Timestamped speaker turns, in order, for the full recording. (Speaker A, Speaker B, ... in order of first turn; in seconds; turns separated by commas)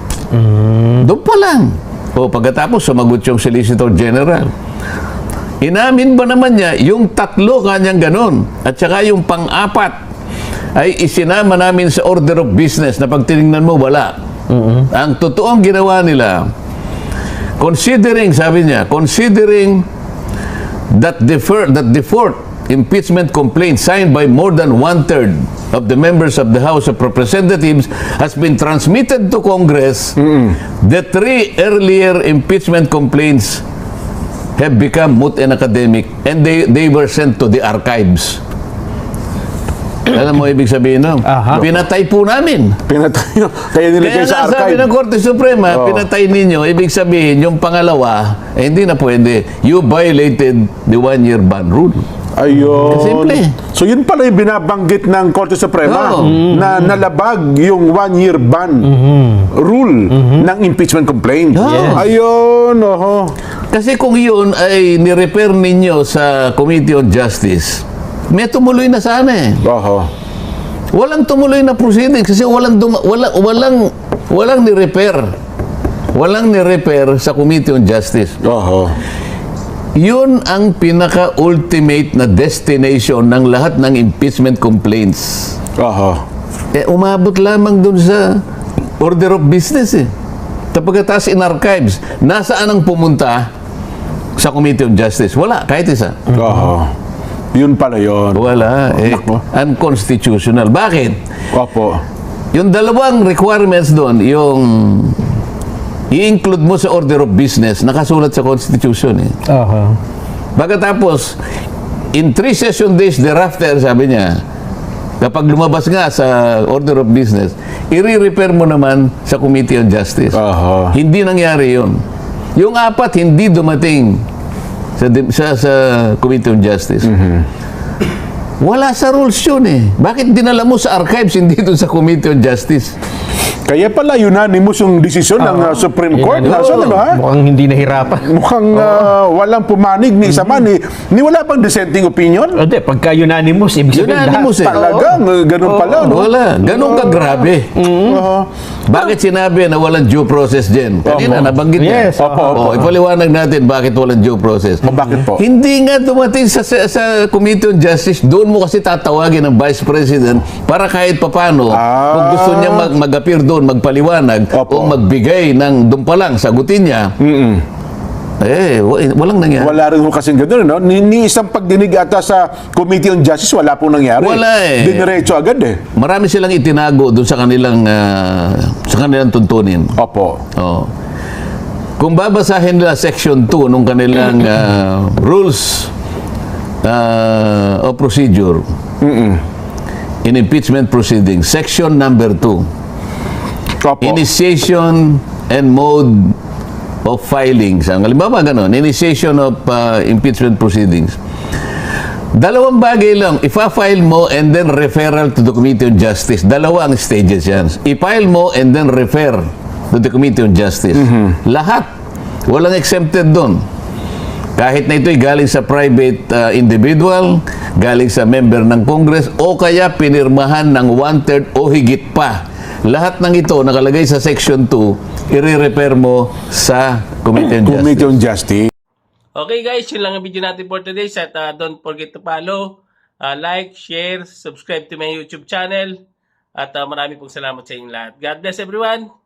Speaker A: 0.4-1.0, Speaker B: 1.0-4.5, Speaker B: 5.6-10.0, Speaker B: 10.8-14.1, Speaker A: 14.5-14.9, Speaker B: 14.9-16.5, Speaker B: 17.6-19.9, Speaker B: 20.9-33.6, Speaker C: 30.3-30.6, Speaker B: 34.6-38.4, Speaker B: 40.1-42.8, Speaker A: 41.3-41.6, Speaker C: 42.9-44.9, Speaker B: 44.0-52.0, Speaker C: 45.7-46.1, Speaker C: 52.4-58.9, Speaker A: 52.8-53.1, Speaker B: 52.9-53.6, Speaker B: 55.8-56.4, Speaker A: 56.2-56.9, Speaker A: 58.8-59.5, Speaker C: 59.5-63.4, Speaker A: 60.1-60.5, Speaker B: 61.5-62.1, Speaker A: 61.6-62.0, Speaker B: 63.7-69.7, Speaker C: 69.6-70.1, Speaker B: 70.9-75.2, Speaker B: 76.2-78.4, Speaker C: 78.5-79.0, Speaker B: 80.0-85.6, Speaker C: 85.8-86.2, Speaker B: 86.8-88.4, Speaker B: 89.0-90.1, Speaker B: 90.7-93.5, Speaker B: 94.4-96.3, Speaker C: 96.3-96.9, Speaker C: 97.5-98.5, Speaker B: 98.3-101.2, Speaker C: 99.1-99.3, Speaker C: 101.5-102.0, Speaker B: 102.5-105.2, Speaker B: 106.1-109.3, Speaker A: 109.5-110.0, Speaker B: 110.6-111.4, Speaker B: 112.2-114.4, Speaker B: 115.2-122.0, Speaker C: 120.3-121.0, Speaker B: 122.6-124.2, Speaker B: 125.0-127.1, Speaker C: 127.0-127.5, Speaker B: 128.6-133.0, Speaker C: 133.7-137.2, Speaker A: 135.4-138.3, Speaker C: 138.2-142.6, Speaker A: 142.6-146.2, Speaker B: 143.9-144.9, Speaker C: 144.6-147.2, Speaker B: 146.1-147.7, Speaker A: 147.8-148.3, Speaker C: 148.0-149.1, Speaker B: 148.9-167.1, Speaker C: 151.1-151.6, Speaker A: 151.8-152.8, Speaker C: 152.2-152.8, Speaker C: 154.8-155.4, Speaker C: 161.7-162.9, Speaker C: 164.5-165.0, Speaker C: 167.2-167.7, Speaker B: 168.4-169.8, Speaker C: 169.6-175.8, Speaker B: 174.2-175.2, Speaker B: 176.0-180.0, Speaker C: 180.0-180.4, Speaker B: 180.6-180.9, Speaker B: 182.0-185.9, Speaker B: 186.8-188.7, Speaker C: 189.0-189.4, Speaker B: 190.2-192.7, Speaker C: 193.8-194.2, Speaker B: 194.0-196.4, Speaker B: 197.1-201.2, Speaker B: 202.4-211.9, Speaker C: 211.0-211.3, Speaker B: 212.5-213.6, Speaker B: 214.6-228.1, Speaker C: 227.6-228.7, Speaker D: 229.3-236.0, Speaker D: 236.6-239.1